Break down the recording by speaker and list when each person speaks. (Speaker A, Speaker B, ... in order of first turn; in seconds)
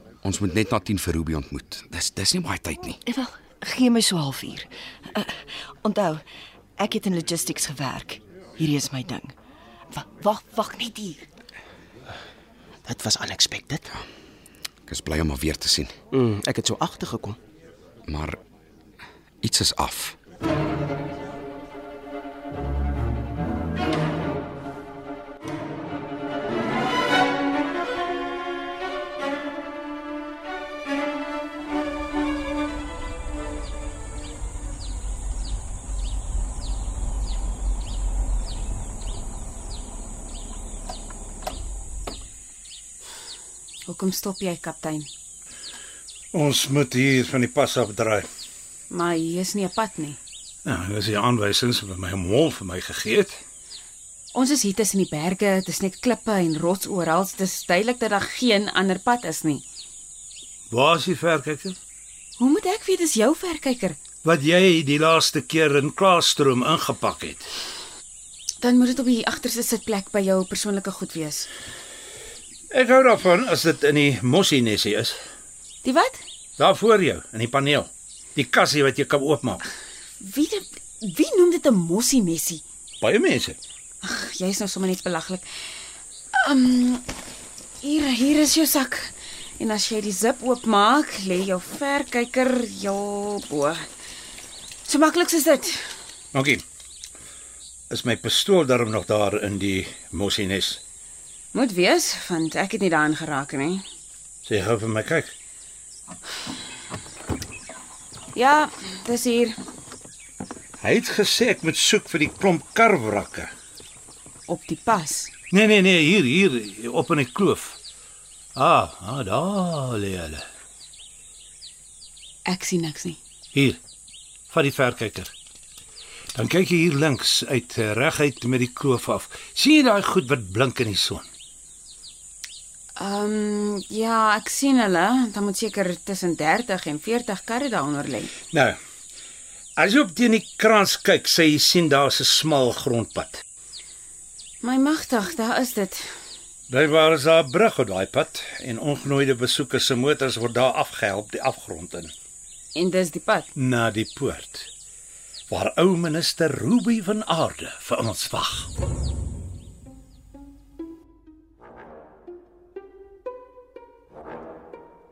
Speaker A: 0.2-3.0, 14.9-15.9, 18.1-18.4, 19.4-20.2
Speaker B: 3.1-6.2, 6.8-9.3, 9.9-11.3
Speaker C: 12.9-13.9, 16.1-17.4
Speaker D: 43.9-45.1, 48.9-50.2, 54.3-59.6, 62.4-64.0, 68.6-71.5, 75.8-76.2, 80.2-82.6, 84.0-85.5, 86.4-87.0, 87.8-93.9, 94.9-95.8, 101.5-103.8, 108.3-109.6, 114.5-115.3, 122.5-123.2, 133.0-138.3, 144.6-146.1, 152.8-153.5
Speaker E: 46.3-48.3, 50.7-53.4, 60.7-61.8, 64.2-67.5, 72.7-75.2, 76.6-79.6, 83.0-83.6, 96.3-96.6, 97.9-100.8, 104.5-105.3, 110.8-113.5, 115.5-117.8, 118.6-120.4, 123.5-123.8, 124.5-125.3, 126.3-131.2, 138.5-138.8, 139.8-143.4, 146.7-152.1, 153.6-154.7, 155.5-158.7